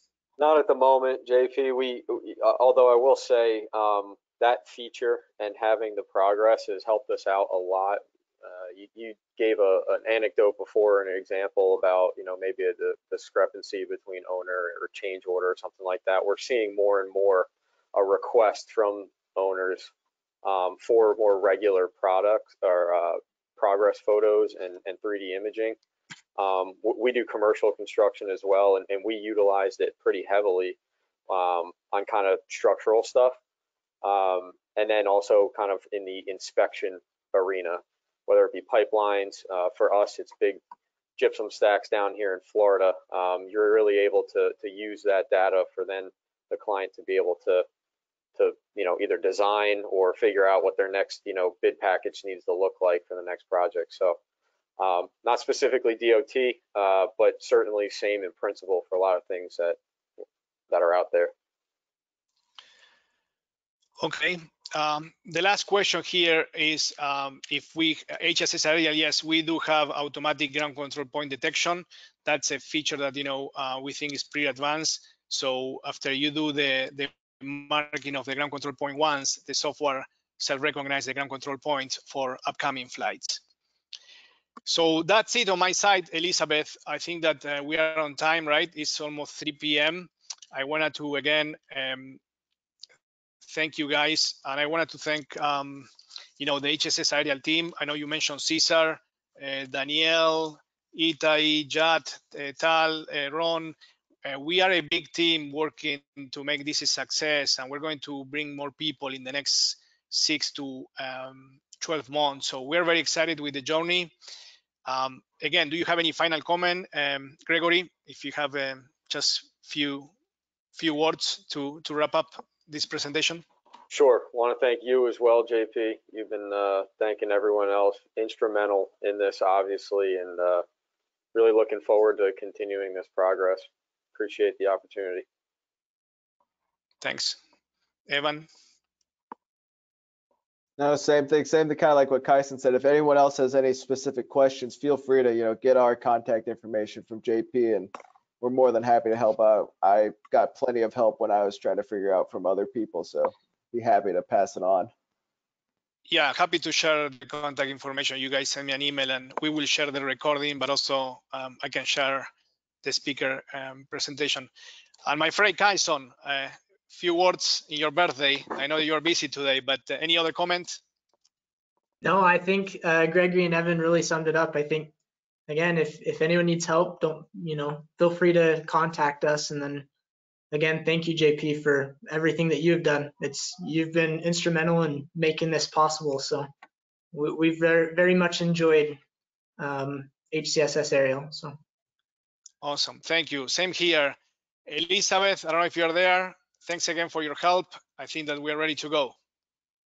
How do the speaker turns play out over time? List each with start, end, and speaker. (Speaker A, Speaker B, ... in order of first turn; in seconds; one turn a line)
Speaker A: 0.4-19.9
Speaker A: 20.4-25.8
Speaker A: 26.4-30.8
Speaker A: 31.3-33.4
Speaker A: 34.0-40.6
Speaker A: 41.2-47.7
Speaker A: 48.4-54.2
Speaker A: 54.8-59.8
Speaker A: 60.7-61.3
Speaker B: 64.0-83.4
Speaker B: 84.7-92.2
Speaker B: 93.5-114.1
Speaker B: 114.9-120.1
Speaker B: 120.8-123.5
Speaker A: 123.9-130.7
Speaker A: 131.3-135.2
Speaker B: 137.0-137.4
Speaker B: 138.1-138.5
Speaker C: 140.8-154.9
Speaker B: 156.1-162.3
Speaker B: 162.8-164.5
Speaker B: 165.1-170.8
Speaker D: 172.0-174.9
Speaker D: 175.5-179.9
Speaker D: 180.5-186.5
Speaker D: 187.1-189.0
Speaker D: 189.6-191.6
Speaker B: 192.6-199.2